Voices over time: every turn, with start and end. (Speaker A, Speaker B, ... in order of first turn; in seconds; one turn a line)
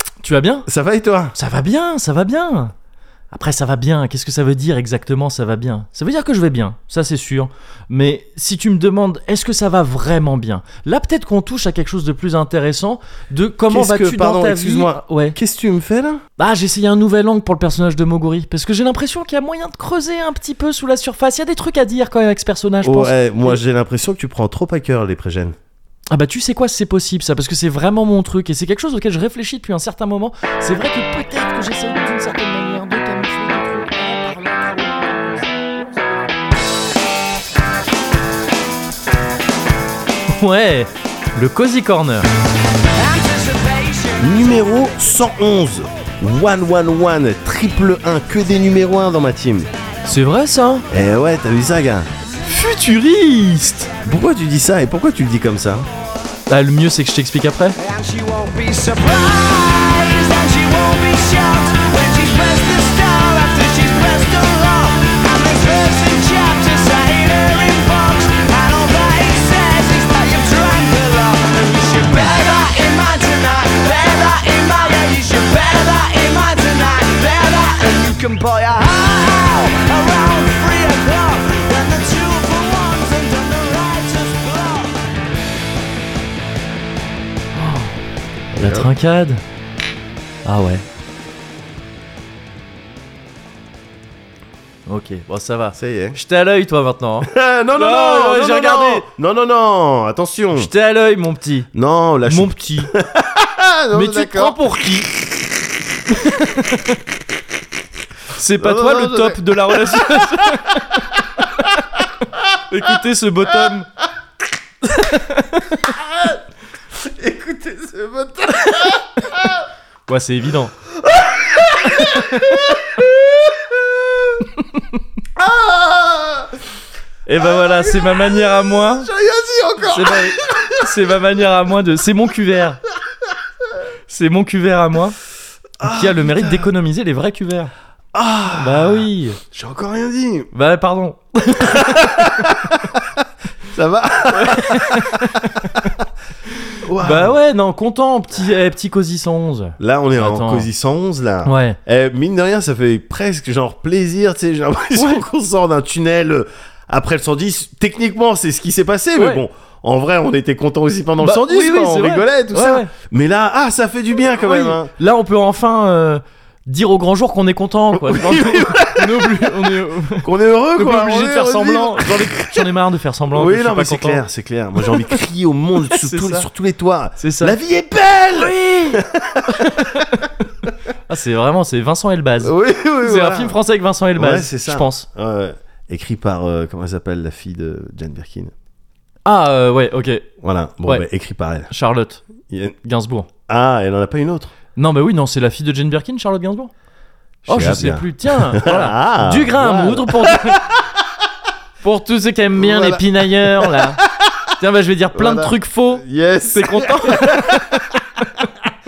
Speaker A: 0.2-0.7
Speaker B: 0.7-1.4
Speaker A: 1.4-2.7
Speaker A: 3.3-15.4
Speaker B: 13.7-16.2
Speaker A: 16.4-23.6
Speaker B: 22.8-25.6
Speaker A: 26.1-35.2
Speaker A: 40.3-42.3
Speaker C: 42.9-45.0
Speaker B: 44.2-49.7
Speaker A: 50.0-50.9
Speaker B: 50.9-52.1
Speaker A: 52.5-53.9
Speaker B: 54.0-55.9
Speaker A: 56.5-57.8
Speaker C: 57.8-85.0
Speaker A: 87.5-87.9
Speaker B: 88.5-88.9
Speaker A: 88.5-89.4
Speaker A: 90.4-90.8
Speaker A: 94.9-99.1
Speaker B: 95.7-96.2
Speaker B: 97.2-100.7
Speaker A: 100.5-101.7
Speaker B: 101.7-104.6
Speaker A: 102.3-102.9
Speaker A: 103.9-105.1
Speaker A: 106.1-107.0
Speaker A: 108.3-111.7
Speaker B: 108.6-110.6
Speaker A: 112.7-113.9
Speaker A: 114.8-115.9
Speaker B: 115.9-116.4
Speaker B: 116.9-119.6
Speaker A: 120.1-120.7
Speaker B: 120.9-124.5
Speaker A: 121.9-122.8
Speaker A: 124.6-124.9
Speaker B: 125.4-126.5
Speaker A: 127.3-129.1
Speaker B: 127.4-130.8
Speaker A: 129.9-132.8
Speaker A: 134.1-135.2
Speaker B: 135.8-136.7
Speaker A: 135.8-137.7
Speaker B: 138.2-140.5
Speaker A: 138.6-139.4
Speaker A: 140.5-142.9
Speaker B: 141.7-143.1
Speaker B: 143.7-145.3
Speaker A: 144.3-145.9
Speaker A: 146.5-150.7
Speaker B: 146.8-147.3
Speaker B: 149.8-164.9
Speaker A: 151.4-151.8
Speaker A: 154.9-155.3
Speaker A: 159.2-159.4
Speaker A: 161.2-162.9
Speaker A: 164.4-174.2
Speaker B: 167.9-172.7
Speaker B: 173.3-179.9
Speaker A: 174.9-175.2
Speaker A: 175.9-176.5
Speaker A: 177.2-177.6
Speaker A: 178.3-180.3
Speaker A: 181.1-185.1
Speaker B: 182.4-183.6
Speaker B: 184.2-188.5
Speaker A: 189.3-190.3
Speaker B: 190.4-191.7
Speaker A: 191.7-192.2
Speaker B: 192.5-192.8
Speaker A: 192.8-193.3
Speaker B: 193.5-194.5
Speaker A: 194.8-196.7
Speaker B: 197.5-200.8
Speaker A: 197.5-200.6
Speaker A: 201.8-204.0
Speaker B: 202.6-204.4
Speaker A: 204.6-208.5
Speaker B: 205.1-207.8